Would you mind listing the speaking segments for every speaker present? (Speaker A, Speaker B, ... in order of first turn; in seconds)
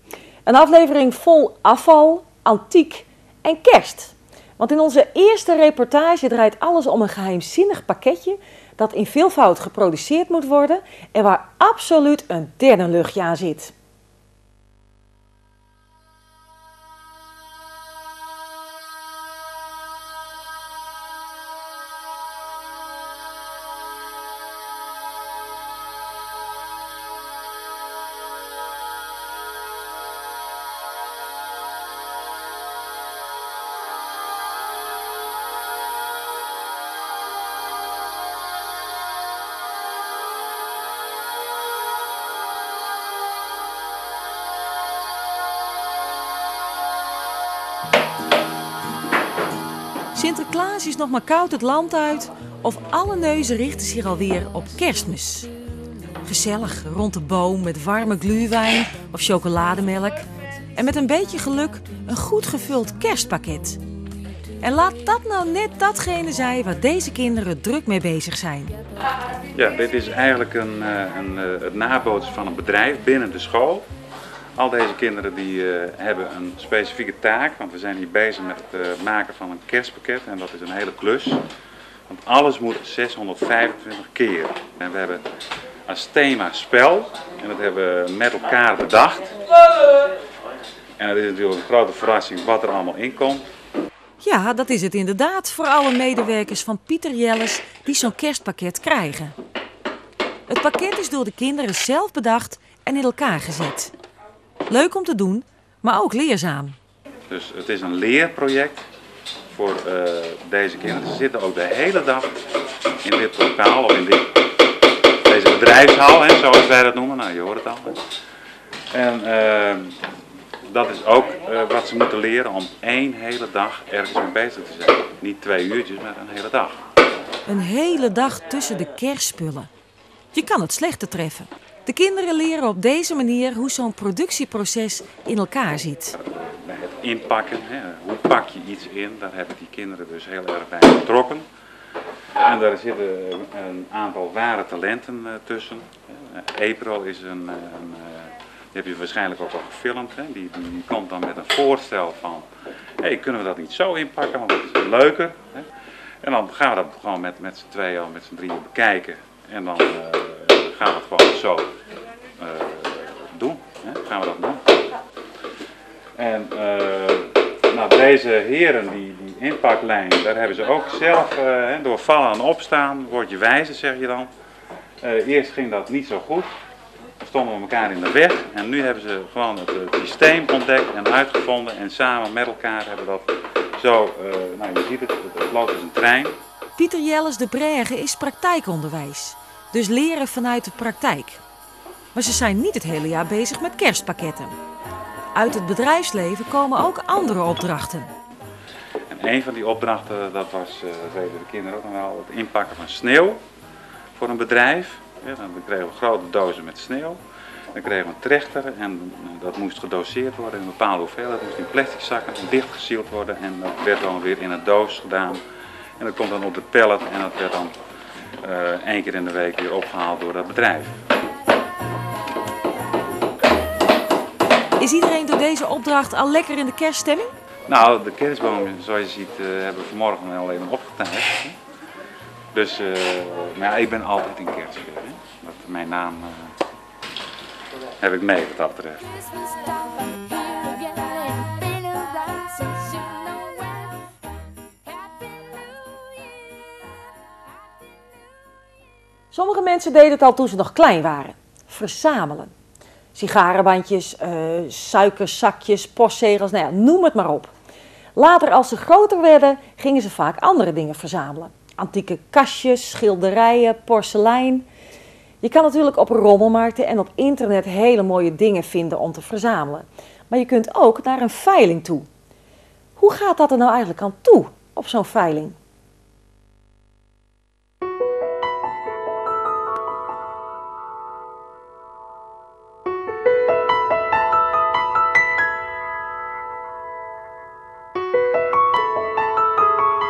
Speaker A: 0.5-13.7, 50.1-55.5, 56.2-63.8, 64.6-68.7, 94.2-99.3, 100.5-103.9, 104.7-106.8, 127.5-129.7, 130.3-136.1, 186.8-191.4, 192.1-194.6, 195.3-198.1, 224.8-227.3, 249.3-252.5, 253.1-257.5, 258.1-264.6, 265.4-272.1, 272.9-275.6
Speaker B: 69.5-73.9, 74.6-81.4, 82.1-85.2, 85.9-89.6, 91.0-93.5, 107.3-108.8, 109.5-112.3, 113.0-114.3, 115.2-118.0, 118.9-120.0, 120.7-126.8, 136.2-141.4, 142.3-152.5, 153.0-155.7, 156.2-161.7, 162.4-164.8, 166.2-174.3, 175.0-176.5, 177.2-186.3, 199.1-203.4, 204.2-207.2, 207.7-215.4, 216.0-217.7, 218.4-221.0, 227.7-231.6, 232.5-236.5, 238.0-239.3